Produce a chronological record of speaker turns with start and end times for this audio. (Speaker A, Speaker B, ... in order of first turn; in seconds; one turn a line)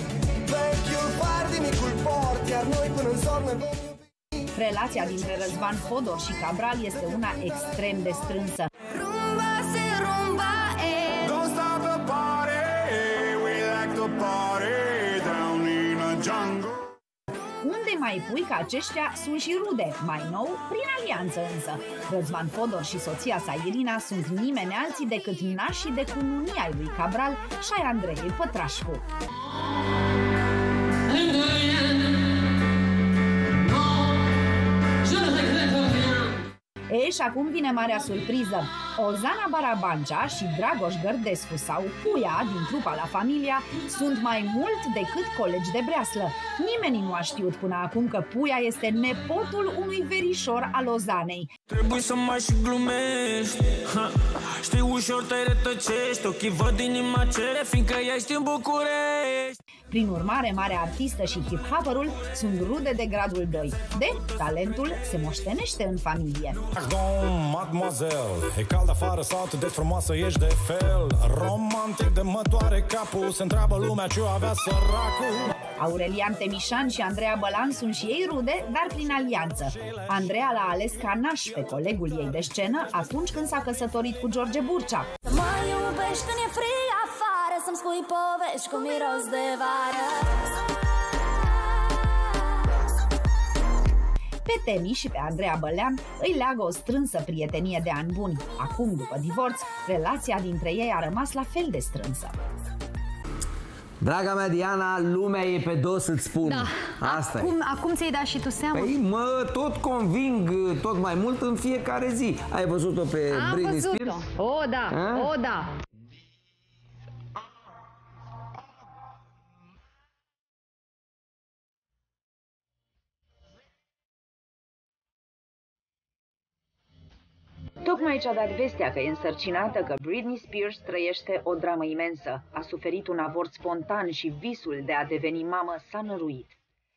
Speaker A: 0.5-3.8
Speaker B: 4.5-8.7
Speaker C: 9.0-11.5
Speaker B: 17.6-29.0
Speaker B: 36.9-51.5
Speaker D: 51.7-59.6
Speaker B: 59.9-66.6
Speaker E: 66.8-75.5
Speaker B: 75.8-85.1
Speaker F: 85.3-90.4
Speaker B: 94.4-102.4
Speaker G: 104.0-107.5
Speaker C: 106.4-109.0
Speaker G: 108.7-114.2
Speaker C: 113.3-115.7
Speaker G: 114.9-115.3
Speaker B: 127.8-136.5